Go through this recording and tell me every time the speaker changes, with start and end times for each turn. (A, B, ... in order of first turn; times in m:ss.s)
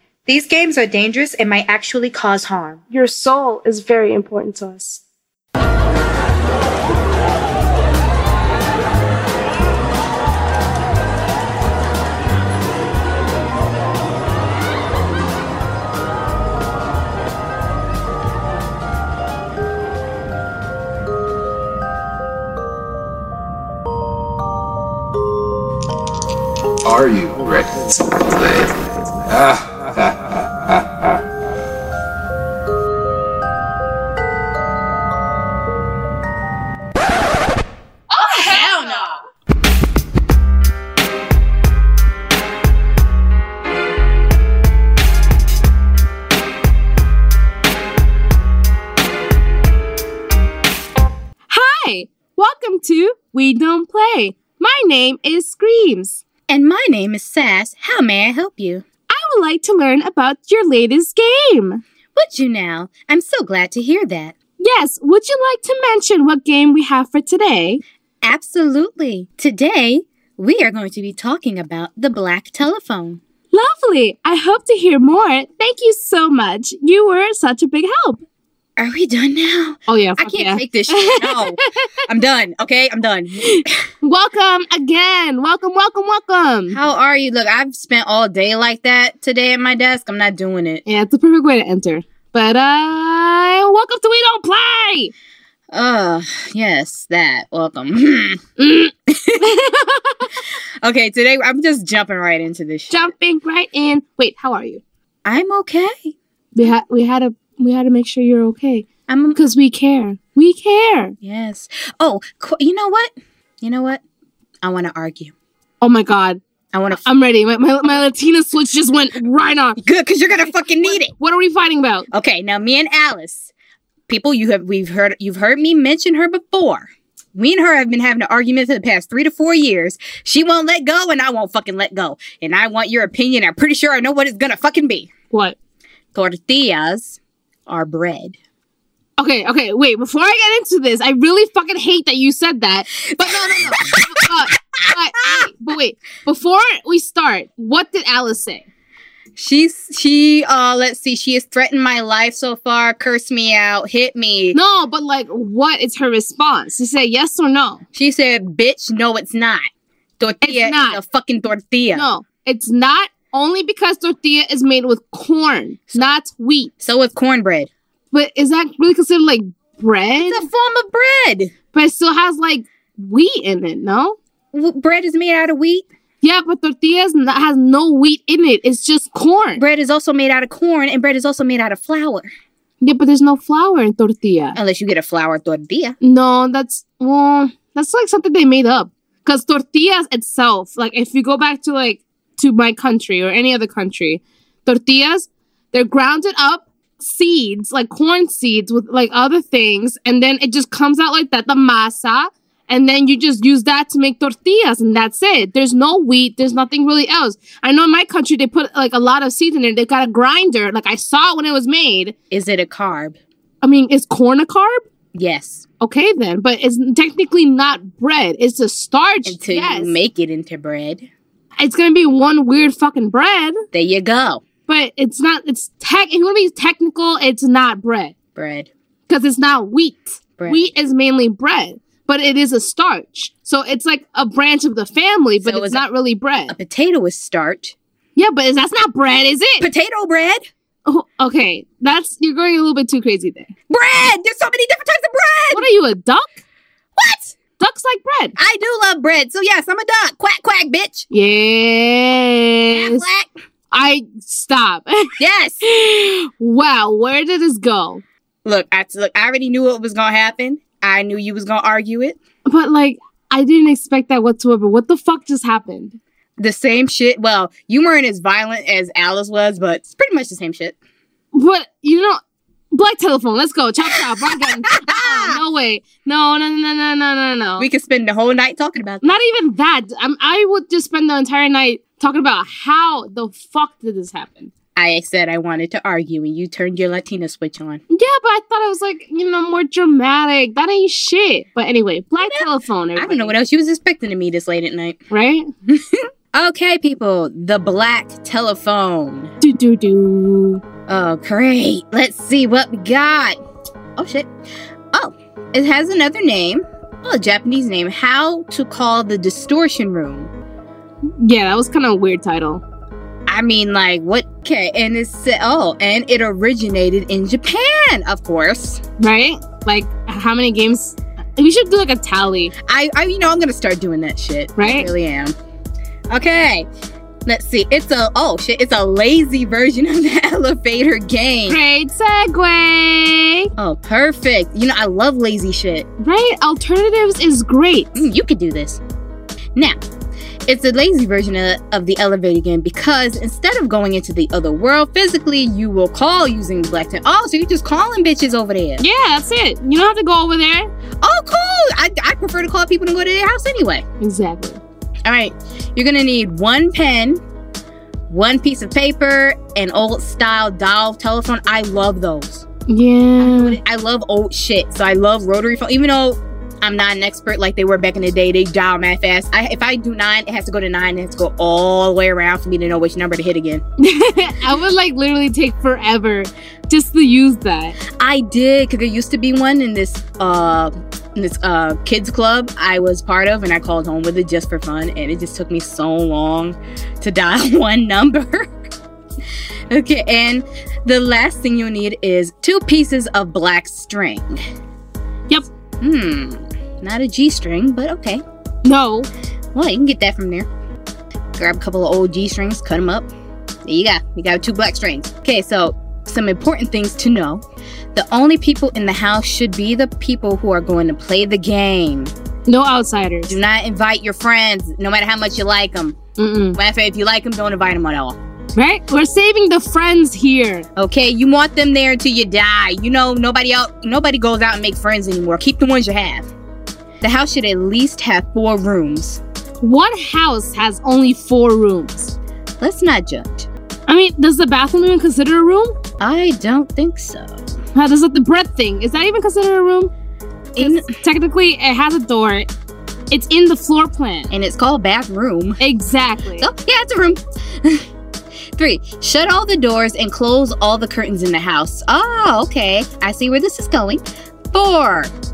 0:00.3-0:02.8 A
0:02.9-0:05.0 B
0:26.8-0:30.8 C
0:38.2-0:39.2 D
0:38.3-0:38.7 E
0:51.5-0:56.2 E
0:56.5-0:58.8 D
0:59.1-1:01.8 E
1:02.1-1:04.3 D
1:04.6-1:07.8 E
1:08.2-1:13.2 D
1:13.5-1:18.2 E
1:18.8-1:23.7 D
1:19.9-1:22.0 E
1:23.4-1:26.8 E
1:26.7-1:30.8 D
1:30.8-1:35.1 E
1:35.7-1:38.4 D
1:38.6-1:40.3 E
1:39.1-1:39.4 D
1:40.8-1:43.1 D
1:42.9-1:44.8 E
1:45.2-1:46.1 D
1:46.5-1:51.1 E
1:49.1-1:49.4 D
1:51.2-1:54.0 D
1:54.6-1:55.3 D
1:55.8-1:56.4 E
1:56.7-1:57.0 D
1:56.9-1:59.8 E
1:59.8-2:01.1 D
2:00.8-2:02.1 E
2:02.1-2:03.5 D
2:04.1-2:15.1 D
2:16.1-2:18.4 D
2:19.2-2:28.6 E
2:23.1-2:24.2 D
2:24.8-2:25.5 D
2:29.4-2:34.6 D
2:34.5-2:37.8 E
2:37.9-2:39.6 D
2:40.2-2:42.1 D
2:40.4-2:41.0 E
2:41.9-2:46.7 E
2:45.9-2:46.1 D
2:46.8-2:47.7 D
2:48.1-2:50.4 E
2:50.2-2:51.5 D
2:51.7-2:54.2 E
2:54.5-2:55.9 D
2:56.2-2:59.6 E
2:59.6-3:02.3 D
3:02.8-3:04.6 E
3:04.5-3:06.0 D
3:06.0-3:32.1 E
3:32.3-3:33.2 D
3:33.6-3:34.8 E
3:35.1-3:35.6 D
3:35.8-3:40.0 E
3:39.2-3:41.1 D
3:41.6-3:43.6 E
3:43.7-3:44.4 D
3:44.7-3:48.1 E
3:48.3-3:48.7 D
3:49.1-3:56.5 E
3:50.4-3:50.7 D
3:55.4-3:55.8 D
3:56.5-3:57.7 D
3:58.2-3:59.6 E
3:59.6-4:00.4 D
4:00.8-4:03.5 E
4:03.7-4:05.7 D
4:05.5-4:06.4 E
4:07.0-4:07.3 D
4:07.6-4:08.4 E
4:08.4-4:11.1 D
4:11.1-4:13.0 E
4:12.7-4:13.3 D
4:13.7-4:18.0 E
4:15.2-4:15.6 D
4:18.4-4:22.2 D
4:22.4-4:26.0 E
4:26.4-4:30.8 D
4:31.3-4:32.2 E
4:32.7-4:37.7 E
4:34.2-4:35.4 D
4:37.6-4:39.2 D
4:39.0-4:44.5 E
4:44.8-4:47.8 D
4:47.9-4:53.3 E
4:52.2-4:55.0 D
4:55.1-4:55.5 E
4:55.6-4:59.3 D
4:59.4-5:00.6 E
5:00.9-5:03.4 D
5:04.0-5:04.3 D
5:04.9-5:10.3 D
5:11.0-5:12.6 E
5:13.3-5:18.8 D
5:19.0-5:22.5 E
5:22.6-5:25.4 D
5:24.6-5:24.9 E
5:26.1-5:26.7 D
5:27.2-5:31.6 D
5:31.5-5:33.5 E
5:33.6-5:35.9 D
5:36.0-5:38.0 E
5:37.9-5:38.8 D
5:40.5-5:48.8 D
5:48.8-5:50.7 E
5:51.0-5:53.8 D
5:54.0-5:54.6 E
5:55.0-5:57.2 D
5:58.1-6:02.4 D
6:02.7-6:03.6 E
6:03.2-6:13.6 D
6:13.8-6:17.8 E
6:17.9-6:28.7 D
6:29.7-6:34.4 D
6:35.8-6:38.2 D
6:38.6-6:39.1 E
6:39.5-6:40.5 D
6:41.4-6:43.1 D
6:43.6-6:47.4 D
6:47.9-6:52.1 D
6:52.5-6:53.4 E
6:53.3-6:56.0 D
6:56.2-6:56.6 E
6:56.5-6:58.2 D
6:58.6-7:00.6 E
7:00.8-7:06.3 D
7:07.0-7:09.2 D
7:09.6-7:12.1 E
7:12.6-7:13.5 D
7:13.9-7:15.8 E
7:16.0-7:17.4 D
7:17.7-7:19.9 E
7:20.5-7:20.9 D
7:20.6-7:22.5 E
7:23.1-7:24.3 E
7:24.3-7:25.6 D
7:25.6-7:26.5 E
7:26.4-7:27.8 D
7:28.5-7:35.1 D